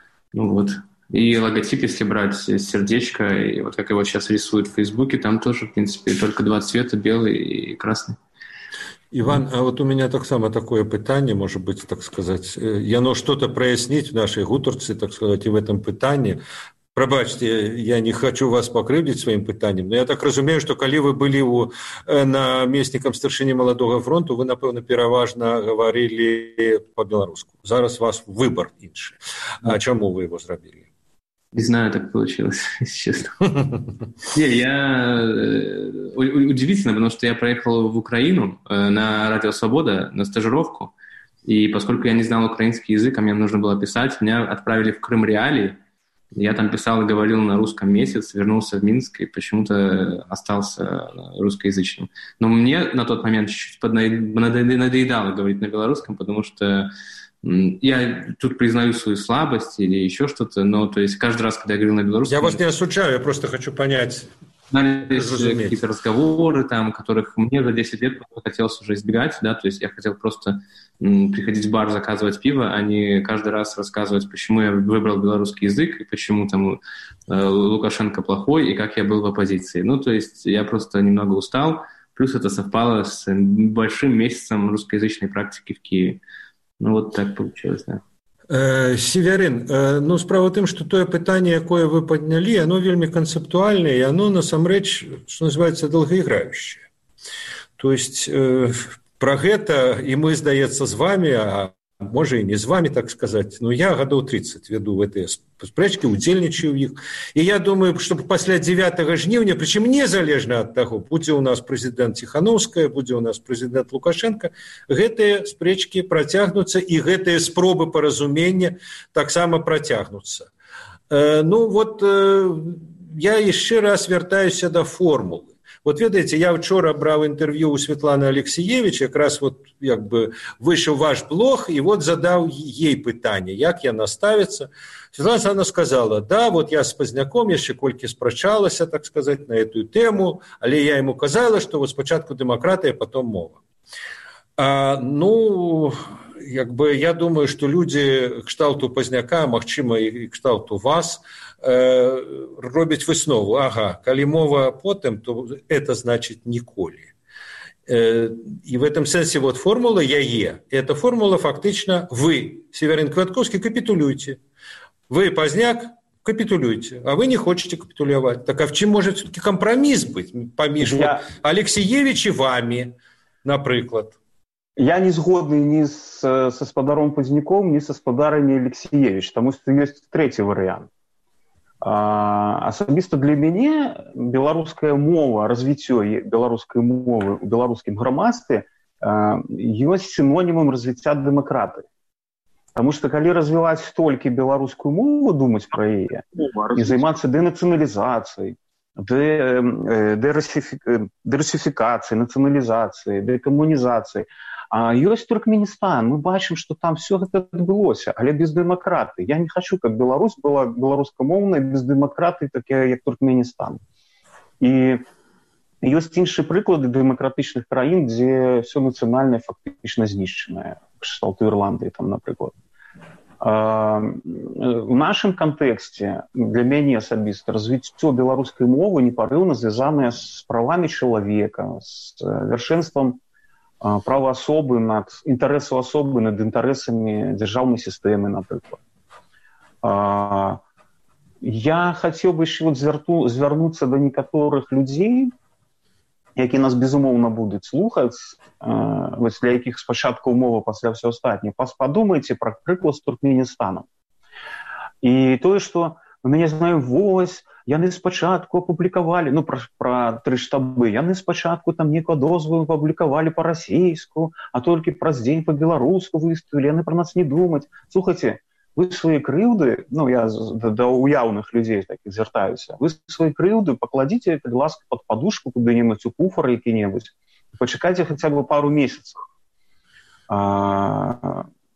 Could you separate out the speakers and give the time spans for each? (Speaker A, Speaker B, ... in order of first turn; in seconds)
Speaker A: 0.3-8.2, 31.5-33.5, 34.3-40.9, 41.4-45.8, 46.3-56.9, 57.4-62.6, 64.7-86.2, 86.8-88.0, 196.4-197.1
Speaker B: 9.1-16.4, 16.9-30.9, 62.3-64.3, 65.1-65.8, 88.5-96.9, 97.8-120.5, 121.1-143.6, 144.6-157.1, 157.9-164.4, 165.1-174.2
Speaker C: 170.8-171.3, 174.8-180.9, 181.8-191.8, 192.7-213.8, 214.6-215.0, 215.8-222.5, 223.4-233.2, 233.8-238.8, 239.8-240.6, 241.4-245.3, 246.4-253.9, 255.0-279.2, 280.3-281.5